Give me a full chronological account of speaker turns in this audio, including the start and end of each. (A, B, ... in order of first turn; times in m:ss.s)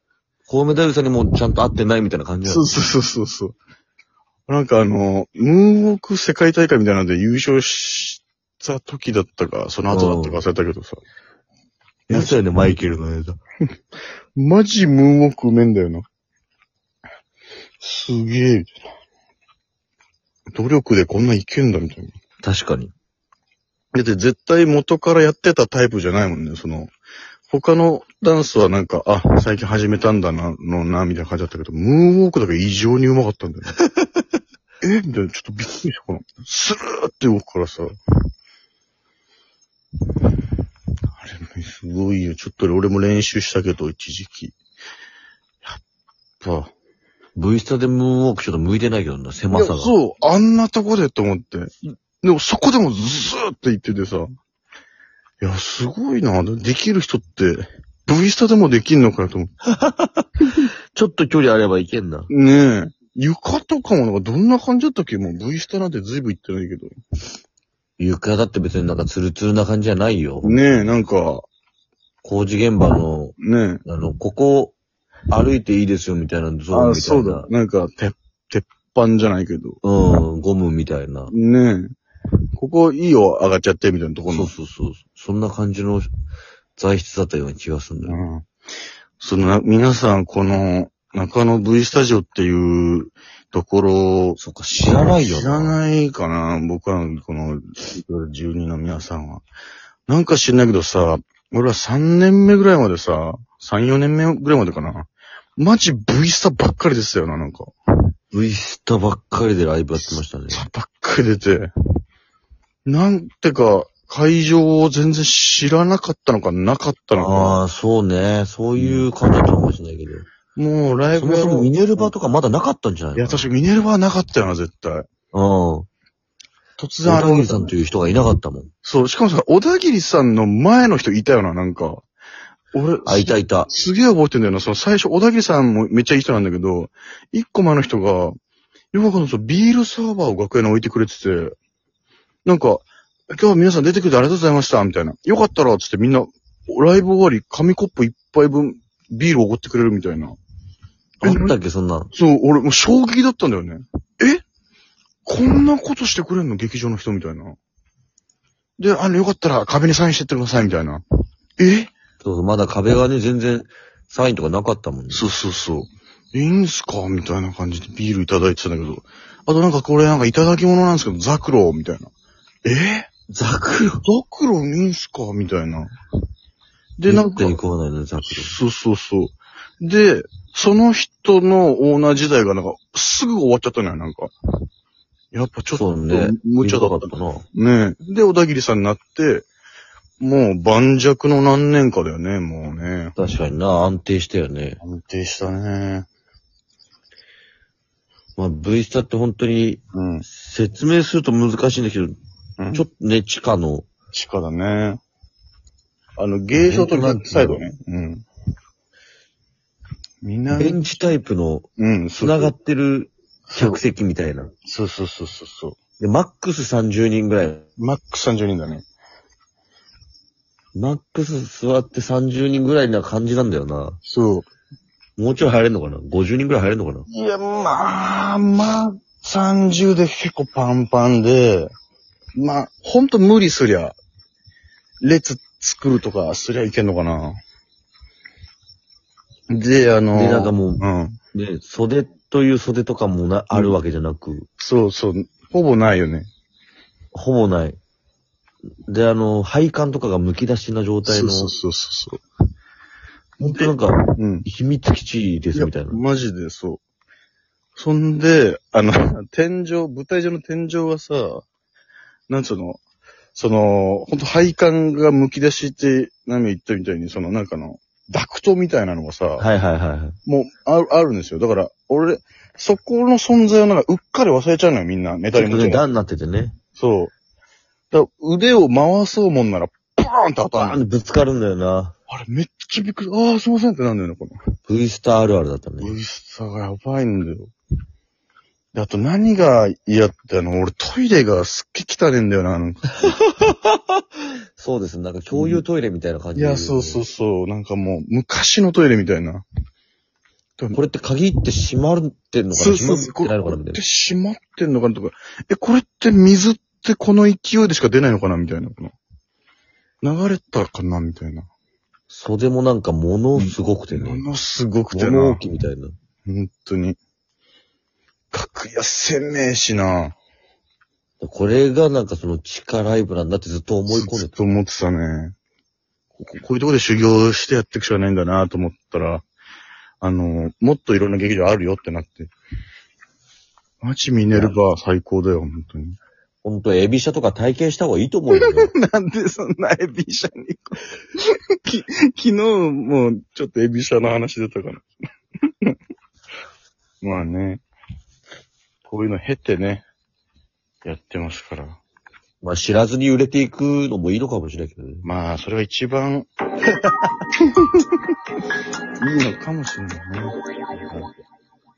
0:00.5-0:02.7 A
0:02.5-0:03.6 B
0:04.5-0:11.0 B
0:09.9-0:10.4 A
0:12.1-0:12.4 B
0:12.1-0:13.4 A
0:14.4-0:16.0 B
0:17.8-0:18.7 B
0:20.6-0:22.1 B
0:22.4-0:22.9 A
0:23.9-0:26.9 B
0:27.5-0:33.8 B
0:34.8-0:37.9 B
0:41.2-0:44.5 B
0:46.4-0:46.7 B
0:47.4-0:50.0 A
0:49.5-0:54.3 B
0:55.4-0:59.5 B
0:59.7-1:00.3 A
1:00.9-1:02.3 A
1:02.3-1:06.9 B
1:08.0-1:10.6 A
1:10.4-1:11.5 B
1:12.2-1:14.8 A
1:13.4-1:13.8 B
1:15.3-1:17.5 A
1:16.7-1:19.8 B
1:19.8-1:21.3 A
1:21.3-1:21.9 B
1:22.6-1:24.5 B
1:24.3-1:26.1 A
1:26.8-1:28.2 A
1:28.0-1:28.5 B
1:29.2-1:39.4 B
1:34.4-1:35.8 A
1:40.1-1:47.7 B
1:48.3-1:50.7 A
1:49.9-1:51.7 B
1:52.9-1:57.6 B
1:57.2-2:00.3 A
1:58.8-1:59.5 B
2:00.6-2:02.1 B
2:01.2-2:03.5 A
2:03.2-2:05.1 B
2:05.3-2:05.9 A
2:06.8-2:07.8 B
2:07.0-2:08.7 A
2:08.8-2:12.0 B
2:12.7-2:18.3 B
2:13.0-2:13.7 A
2:18.9-2:21.5 B
2:22.4-2:30.4 B
2:31.2-2:32.1 A
2:31.2-2:31.6 B
2:32.1-2:34.4 B
2:35.2-2:37.6 B
2:38.8-2:41.0 B
2:41.6-2:41.9 B
2:42.2-2:45.3 A
2:45.1-2:52.1 B
2:52.6-2:53.1 B
2:53.3-2:54.0 A
2:54.0-2:55.9 B
2:57.0-2:57.6 B
2:57.0-2:58.6 A
2:58.2-3:04.3 B
3:05.3-3:09.5 B
3:05.7-3:07.4 A
3:10.2-3:13.2 B
3:13.2-3:14.8 A
3:14.8-3:16.1 B
3:18.4-3:22.2 A
3:19.9-3:20.2 B
3:22.6-3:22.9 B
3:22.7-3:23.9 A
3:24.1-3:25.0 B
3:26.2-3:28.2 B
3:26.6-3:27.6 A
3:30.2-3:30.9 B
3:30.5-3:31.7 A
3:31.8-3:32.5 B
3:32.2-3:34.5 A
3:33.5-3:33.8 B
3:34.6-3:35.8 B
3:36.0-3:37.6 A
3:37.8-3:38.8 B
3:40.7-3:44.0 A
3:44.0-3:44.5 B
3:45.2-3:47.0 A
3:47.1-3:51.7 B
3:52.4-3:54.0 B
3:55.0-3:57.4 B
3:59.5-4:01.2 B
4:00.1-4:04.5 A
4:04.6-4:06.3 B
4:07.1-4:07.8 A
4:08.9-4:11.5 A
4:11.0-4:12.2 B
4:13.4-4:16.0 A
4:13.4-4:14.5 B
4:15.5-4:16.8 B
4:17.8-4:21.4 B
4:22.3-4:22.8 B
4:23.4-4:29.5 B
4:29.4-4:30.2 A
4:30.3-4:35.9 B
4:35.3-4:36.6 A
4:36.8-4:37.1 B
4:37.9-4:40.8 B
4:40.4-4:42.0 A
4:42.1-4:44.4 B
4:44.7-4:45.9 A
4:45.8-4:47.5 B
4:48.7-4:53.2 B
4:52.9-4:54.0 A
4:54.6-4:57.0 A
4:55.3-4:55.6 B
4:56.4-4:59.4 B
5:00.7-5:03.8 A
5:02.5-5:09.0 B
5:10.0-5:11.5 B
5:12.1-5:14.2 A
5:13.4-5:15.4 B
5:14.9-5:16.0 A
5:16.3-5:17.0 B
5:18.3-5:20.1 B
5:21.2-5:24.4 A
5:23.9-5:25.4 B
5:26.2-5:29.2 B
5:30.0-5:32.3 B
5:33.8-5:36.0 B
5:36.4-5:38.7 A
5:38.3-5:44.9 B
5:47.0-5:47.6 B
5:48.9-5:49.8 B
5:50.8-5:51.8 B
5:52.4-5:55.1 A
5:55.0-5:56.3 B
5:59.0-6:01.1 B